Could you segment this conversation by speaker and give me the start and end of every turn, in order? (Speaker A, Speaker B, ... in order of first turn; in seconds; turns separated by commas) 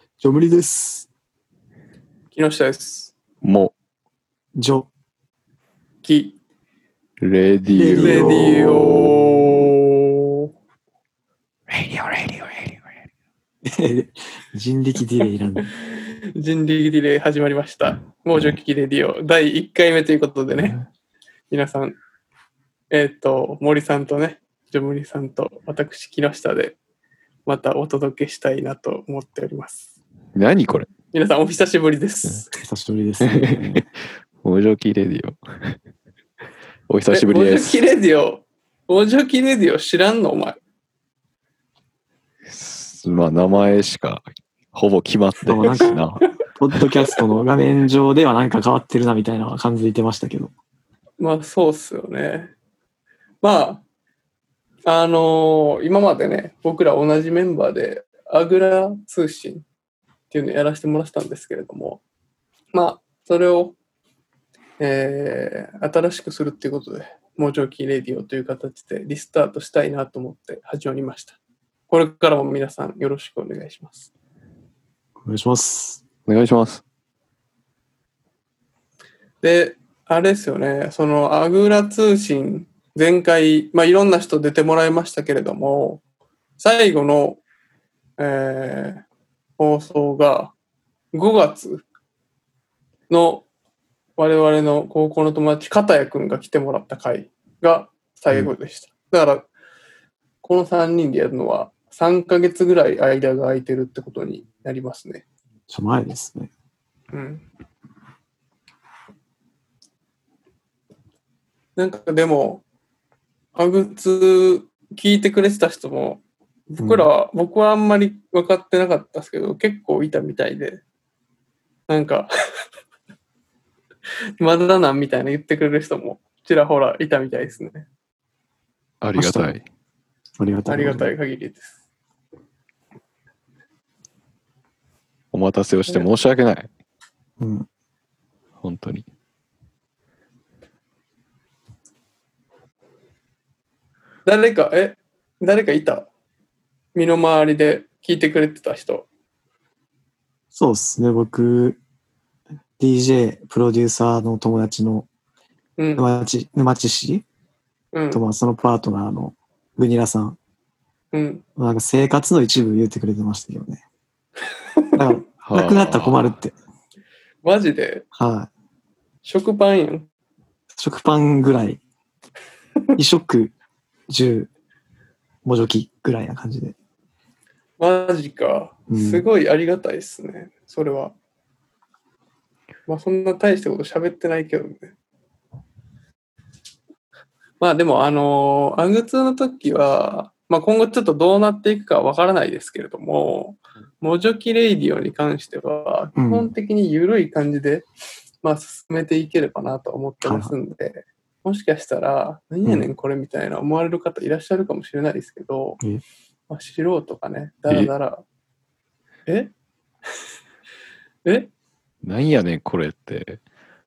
Speaker A: 0.2-1.1, Speaker B: 2.3-3.1, Speaker C: 3.4-3.7, Speaker A: 4.5-4.9, Speaker B: 6.0-6.4, Speaker C: 7.2-9.5, Speaker A: 7.7-8.9, Speaker B: 8.0-10.5, Speaker C: 11.7-12.8, Speaker A: 13.6-15.7, Speaker B: 15.7-20.8, Speaker C: 20.5-20.9, Speaker B: 21.5-22.0, Speaker B: 22.9-26.8, Speaker B: 27.4-29.9, Speaker C: 30.4-30.9, Speaker B: 31.1-32.5, Speaker A: 32.5-33.8, Speaker C: 33.2-33.9, Speaker C: 34.4-35.8, Speaker C: 36.9-37.8, Speaker B: 37.1-40.6, Speaker C: 42.5-46.2, Speaker A: 45.5-50.5, Speaker B: 51.2-52.5, Speaker B: 53.4-53.8, Speaker B: 54.9-59.6, Speaker B: 60.3-62.0, Speaker B: 62.7-63.8, Speaker B: 64.8-71.4, Speaker B: 71.9-74.1, Speaker A: 75.2-76.0, Speaker C: 76.2-76.8, Speaker B: 79.4-86.0, Speaker B: 86.6-87.4, Speaker B: 88.2-89.0, Speaker B: 89.6-90.5, Speaker B: 91.1-91.8, Speaker B: 93.1-93.4, Speaker B: 94.2-99.5, Speaker B: 100.4-105.2, Speaker A: 105.7-106.5, Speaker B: 107.1-107.4, Speaker B: 111.8-112.6, Speaker B: 113.5-120.8, Speaker A: 116.8-117.1, Speaker B: 121.9-122.3, Speaker B: 124.4-127.9, Speaker C: 129.0-129.6, Speaker A: 129.2-129.5, Speaker A: 130.4-131.1, Speaker B: 130.7-131.8, Speaker C: 135.3-136.7, Speaker A: 137.4-137.7, Speaker C: 138.6-139.1, Speaker B: 144.3-146.1, Speaker B: 146.9-149.1, Speaker A: 150.5-151.8, Speaker A: 152.8-155.1, Speaker B: 155.8-156.1, Speaker A: 156.0-157.2, Speaker B: 157.9-158.2, Speaker A: 158.1-160.4, Speaker B: 161.1-161.4, Speaker A: 161.6-163.8, Speaker A: 164.9-166.6, Speaker C: 165.4-166.4, Speaker B: 167.4-168.1, Speaker A: 168.2-168.5, Speaker B: 169.2-170.1, Speaker A: 170.8-171.8, Speaker A: 173.0-173.5, Speaker A: 174.1-174.5, Speaker A: 175.4-176.8, Speaker B: 177.8-181.1, Speaker A: 178.9-179.3, Speaker B: 182.9-184.9, Speaker B: 187.6-197.9, Speaker A: 196.2-196.5, Speaker B: 198.4-205.8, Speaker A: 200.2-200.6, Speaker B: 206.5-208.2, Speaker B: 211.2-211.5, Speaker C: 212.0-213.4